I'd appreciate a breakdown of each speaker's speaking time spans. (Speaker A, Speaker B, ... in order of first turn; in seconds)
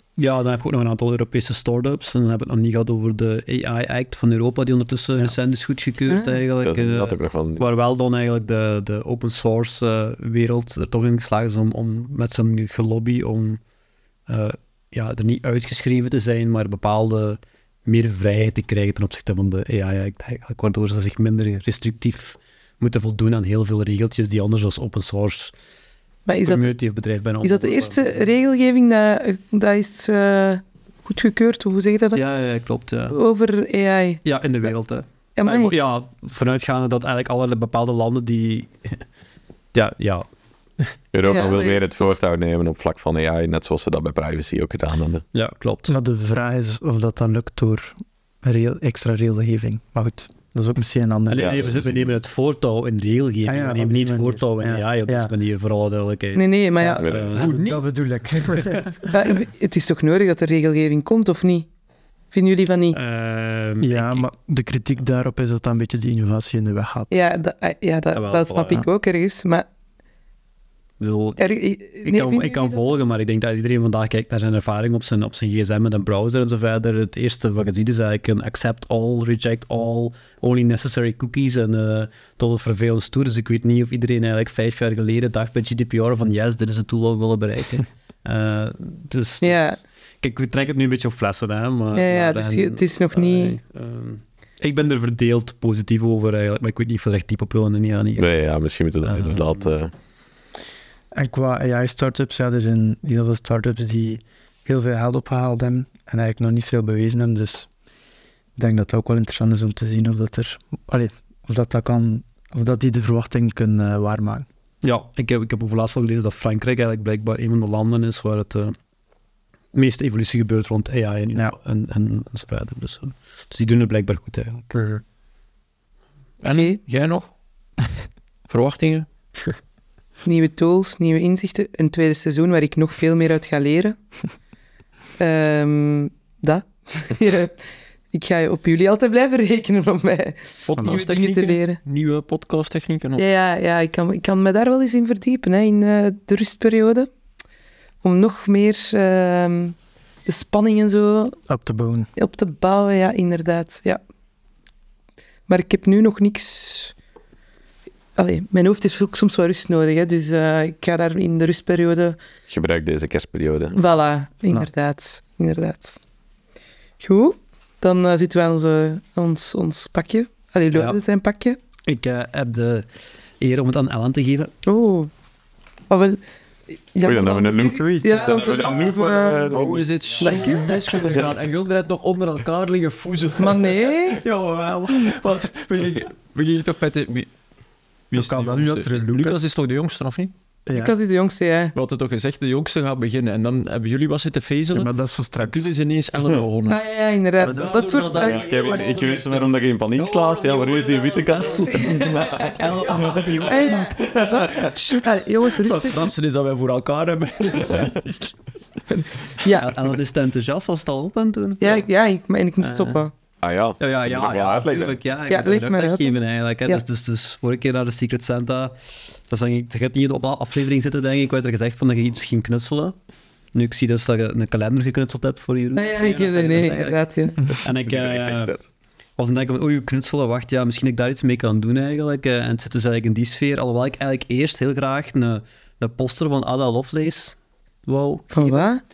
Speaker A: 0.2-13.6, 14.3-25.5, 26.4-28.2, 32.1-33.2, 34.2-39.0, 39.7-40.2, 45.3-45.9, 51.3-57.7, 62.9-64.2, 68.1-68.8, 71.0-71.4, 72.0-89.6, 90.2-98.3, 99.0-99.7, 114.8-118.8, 119.7-124.8, 170.7-171.0, 171.8-172.9, 173.4-174.5, 180.2-181.2, 197.4-204.0, 209.5-211.8, 212.6-213.0, 213.8-218.7, 219.3-222.9, 223.5-227.0, 227.6-228.6, 229.2-238.7
Speaker B: 6.1-6.4, 26.2-26.8, 27.4-32.2, 33.1-34.2, 35.4-35.8, 41.2-41.8, 56.3-57.1, 59.1-61.7, 62.3-63.0, 67.1-69.7, 71.4-73.0, 89.4-89.8, 91.9-93.6, 126.5-126.8, 130.2-133.9, 135.2-137.5, 138.1-141.8, 143.2-147.1, 148.0-151.4, 152.2-154.0, 155.5-156.9, 158.2-162.2, 163.7-166.0, 167.0-171.6, 174.6-175.1, 175.9-176.2, 176.9-179.5, 183.4-184.2, 190.7-191.7, 196.7-198.5, 201.8-202.1, 203.4-206.1, 209.0-209.7, 211.6-213.1, 215.3-216.8, 225.7-227.3, 238.3-238.8
Speaker C: 6.6-7.6, 41.1-45.2, 51.4-51.8, 57.0-57.4, 98.2-99.9, 162.5-163.8, 177.0-179.9, 198.1-203.2, 204.2-204.7, 213.4-215.0, 227.8-228.6
Speaker D: 45.9-51.9, 53.4-55.3, 57.3-58.9, 63.8-67.1, 101.1-107.7, 108.5-114.5, 151.5-152.1, 188.1-189.3, 190.7-190.9, 194.7-195.7, 197.5-197.8
Speaker E: 57.4-57.8, 126.4-127.3, 128.5-129.1, 140.6-143.2, 179.5-187.3, 188.1-190.3, 191.7-196.8, 202.9-204.6, 205.6-208.3